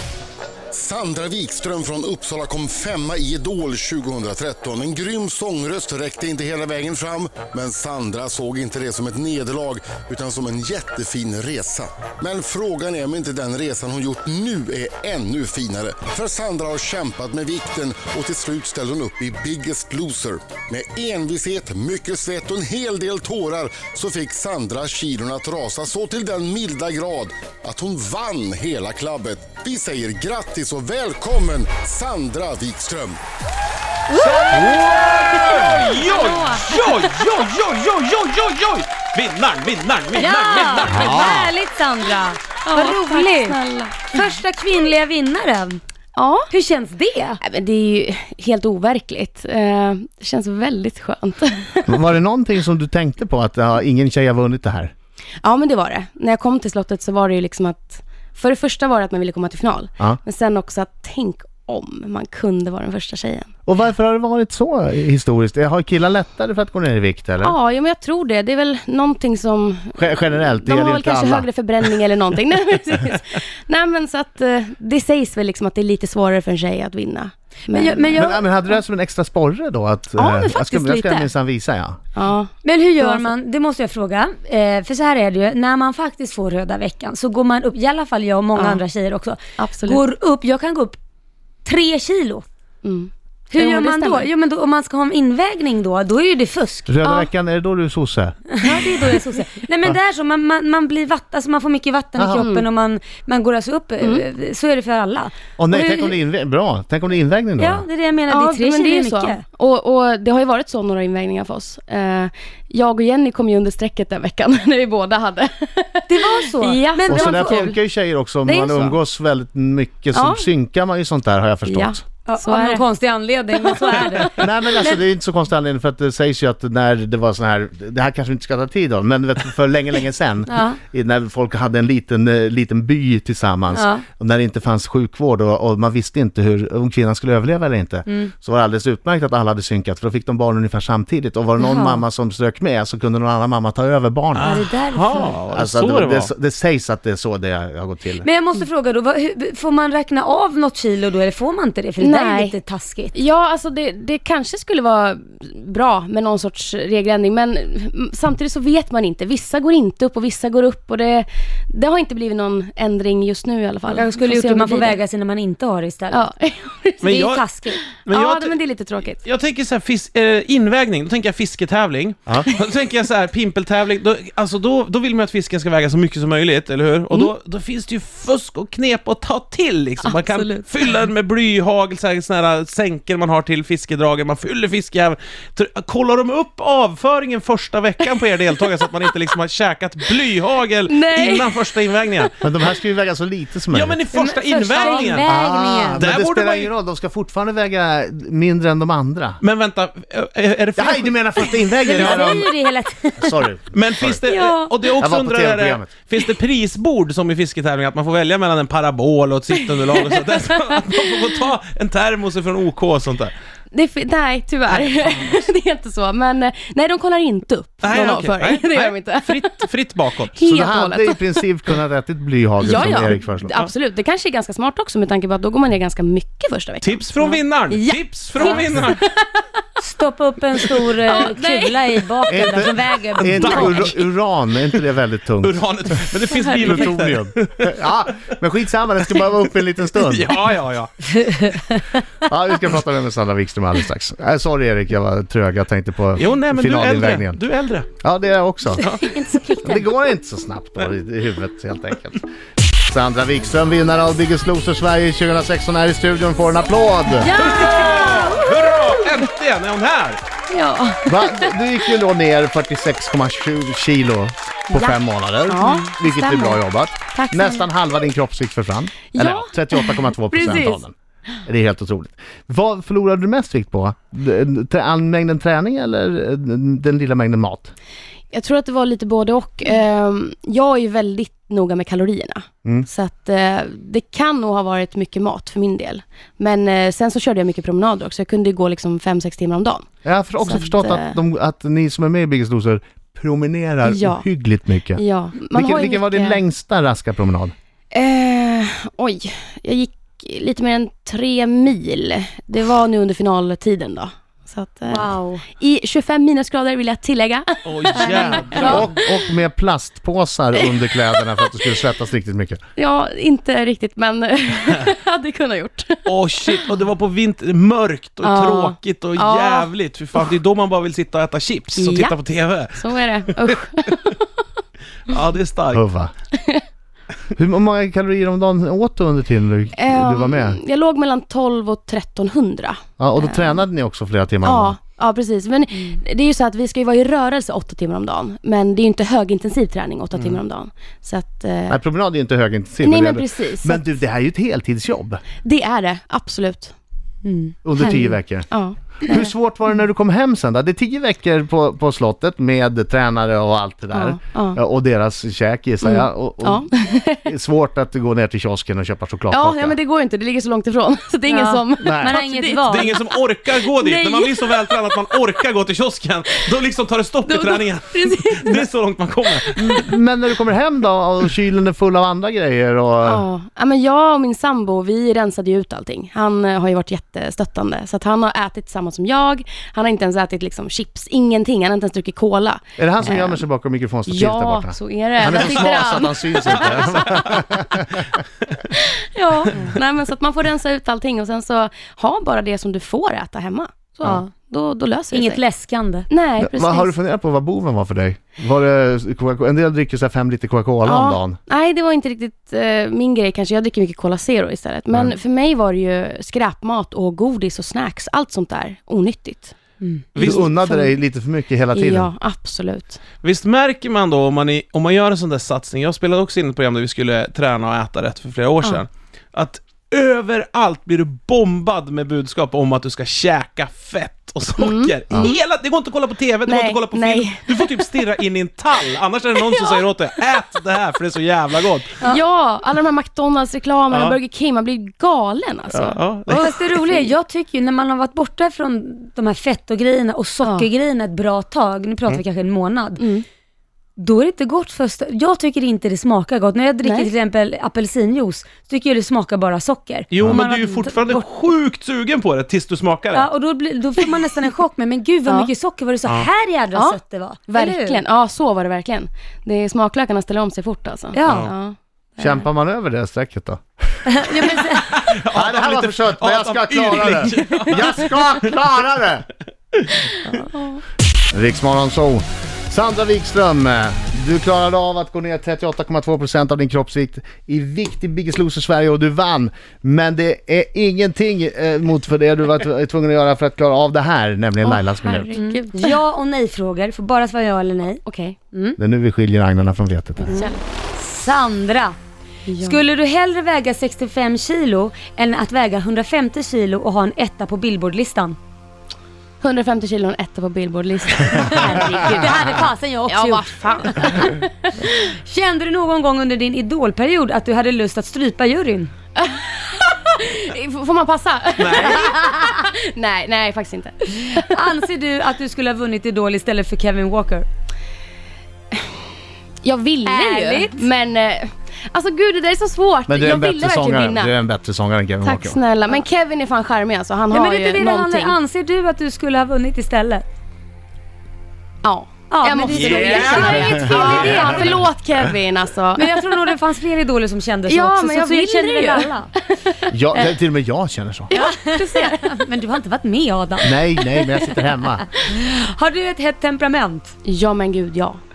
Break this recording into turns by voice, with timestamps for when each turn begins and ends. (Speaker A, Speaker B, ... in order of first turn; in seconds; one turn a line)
Speaker A: 0.7-33.2
Speaker B: 34.1-34.5
Speaker C: 34.1-41.4
Speaker D: 34.4-37.1
Speaker B: 40.1-43.6
Speaker E: 40.9-41.5
Speaker D: 42.6-44.2
Speaker B: 44.1-45.8
Speaker D: 46.1-46.5
Speaker B: 46.5-47.4
Speaker D: 47.4-52.0
Speaker E: 51.9-54.9
Speaker D: 55.4-63.5
Speaker E: 63.7-67.5
Speaker D: 67.4-78.2
Speaker E: 70.0-71.5
Speaker B: 77.7-78.5
Speaker E: 78.2-82.0
Speaker D: 80.2-81.3
Speaker D: 82.2-83.3
Speaker B: 82.6-91.0
Speaker D: 88.5-88.8
Speaker D: 89.6-90.0
Speaker B: 91.7-92.5
Speaker D: 92.8-94.3
Speaker B: 93.5-97.0
Speaker E: 96.9-98.4
Speaker B: 98.5-106.2
Speaker D: 98.6-99.4
Speaker E: 102.2-102.5
Speaker D: 102.3-102.7
Speaker D: 104.0-104.3
Speaker E: 105.6-107.8
Speaker B: 107.6-109.4
Speaker D: 108.3-117.8
Speaker B: 116.1-117.7
Speaker E: 117.1-122.0
Speaker D: 118.5-119.0
Speaker D: 120.1-120.5
Speaker D: 121.7-122.8
Speaker B: 122.3-124.9
Speaker D: 123.6-124.3
Speaker E: 124.3-144.6
Speaker B: 130.5-130.8
Speaker B: 133.7-134.0
Speaker B: 138.1-138.3
Speaker B: 141.6-142.0
Speaker C: 144.3-146.3
Speaker B: 144.4-145.4
Speaker E: 145.5-148.3
Speaker B: 148.2-153.2
Speaker D: 152.0-152.6
Speaker D: 153.1-165.0
Speaker B: 163.9-166.3
Speaker D: 166.1-167.1
Speaker C: 167.0-168.6
Speaker B: 167.1-167.8
Speaker D: 167.7-169.2
Speaker C: 169.2-192.3
Speaker D: 180.0-180.7
Speaker D: 190.9-192.3
Speaker E: 192.4-194.0
Speaker C: 193.7-195.3
Speaker B: 194.1-196.1
Speaker E: 195.2-199.4
Speaker C: 195.9-196.7
Speaker C: 199.4-202.4
Speaker E: 200.8-202.5
Speaker B: 201.8-203.4
Speaker E: 203.2-204.2
Speaker C: 203.7-213.3
Speaker D: 204.3-204.9
Speaker E: 205.0-205.9
Speaker D: 213.7-219.6
Speaker C: 217.8-220.3
Speaker D: 220.3-221.2
Speaker E: 220.4-223.5
Speaker D: 222.6-229.4
Speaker C: 226.8-229.0
Speaker B: 229.8-234.0
Speaker D: 231.0-232.6
Speaker E: 232.3-235.6
Speaker C: 233.1-233.8
Speaker C: 235.4-237.7
Speaker D: 236.3-236.8
Speaker E: 236.3-240.3
Speaker C: 239.9-240.9
Speaker B: 241.1-241.9
Speaker E: 242.2-247.4
Speaker C: 246.2-247.9
Speaker E: 248.0-248.9
Speaker B: 248.8-249.9
Speaker C: 248.8-249.2
Speaker E: 249.6-252.2
Speaker E: 252.8-257.4
Speaker D: 257.2-259.3
Speaker C: 257.4-260.2
Speaker D: 260.5-261.6
Speaker E: 261.1-270.9
Speaker D: 264.7-266.6
Speaker D: 267.1-267.7
Speaker D: 269.1-270.8
Speaker E: 271.5-277.7
Speaker D: 278.3-289.9
Speaker E: 290.0-297.5
Speaker D: 290.4-291.2
Speaker D: 293.8-294.3
Speaker D: 295.0-296.4
Speaker D: 297.9-309.2
Speaker B: 304.9-305.5
Speaker C: 307.6-308.9
Speaker B: 308.0-308.3
Speaker E: 308.5-312.6
Speaker D: 311.2-311.5
Speaker D: 312.8-316.6
Speaker C: 316.1-323.6
Speaker D: 318.2-320.3
Speaker D: 321.8-322.2
Speaker D: 322.8-324.4
Speaker C: 325.1-325.8
Speaker E: 325.7-326.1
Speaker D: 326.3-326.6
Speaker E: 327.4-330.6
Speaker D: 329.8-333.6
Speaker E: 333.0-334.8
Speaker D: 334.4-341.8
Speaker E: 341.7-345.2
Speaker D: 342.8-343.8
Speaker D: 345.4-346.8
Speaker B: 347.2-348.2
Speaker E: 347.6-348.5
Speaker D: 348.5-349.3
Speaker E: 349.1-356.6
Speaker D: 353.9-354.6
Speaker D: 355.8-357.2
Speaker E: 357.3-359.8
Speaker D: 359.3-365.1
Speaker B: 361.3-363.0
Speaker E: 361.8-362.2
Speaker C: 362.6-369.9
Speaker D: 367.3-368.7
Speaker D: 369.3-369.8
Speaker E: 369.6-373.2
Speaker D: 373.0-383.4
Speaker E: 382.8-388.1
Speaker D: 384.1-387.6
Speaker D: 388.7-395.4
Speaker B: 394.0-394.3
Speaker B: 395.1-396.1
Speaker D: 396.1-396.9
Speaker E: 396.4-401.4
Speaker D: 400.9-409.6
Speaker C: 410.1-410.4
Speaker D: 410.1-410.9
Speaker E: 410.2-412.1
Speaker D: 411.7-413.0
Speaker C: 413.2-432.0
Speaker D: 424.6-425.4
Speaker D: 426.4-428.1
Speaker D: 429.5-429.8
Speaker D: 432.0-436.0
Speaker C: 433.9-434.2
Speaker C: 435.7-436.9
Speaker B: 436.3-443.0
Speaker D: 440.4-440.7
Speaker D: 443.0-443.2
Speaker B: 444.0-451.3
Speaker D: 446.8-447.1
Speaker C: 450.1-453.3
Speaker B: 453.1-458.0
Speaker D: 456.7-457.0
Speaker D: 457.5-462.5
Speaker B: 461.1-461.5
Speaker C: 461.3-461.5
Speaker E: 462.2-463.6
Speaker B: 464.1-465.0
Speaker E: 464.6-469.3
Speaker C: 464.7-468.6
Speaker D: 470.2-470.8
Speaker E: 471.3-485.4
Speaker D: 484.6-486.0
Speaker B: 485.4-488.8
Speaker D: 488.0-488.4
Speaker E: 488.8-490.4
Speaker D: 490.2-490.6
Speaker B: 490.3-492.0
Speaker D: 492.5-492.9
Speaker B: 492.6-498.4
Speaker D: 499.4-504.9
Speaker B: 501.4-504.3
Speaker B: 504.8-508.9
Speaker D: 509.2-514.6
Speaker C: 511.6-512.0
Speaker B: 514.3-517.5
Speaker D: 519.6-524.3
Speaker B: 520.0-520.9
Speaker E: 523.1-525.6
Speaker D: 525.2-528.4
Speaker B: 527.3-530.2
Speaker D: 531.8-536.1
Speaker B: 532.3-534.7
Speaker C: 532.6-534.4
Speaker E: 533.4-534.5
Speaker B: 536.0-539.3
Speaker D: 537.7-539.8
Speaker E: 539.9-541.3
Speaker D: 541.3-542.4
Speaker B: 541.3-543.8
Speaker E: 543.6-545.1
Speaker B: 545.0-547.1
Speaker D: 547.2-548.2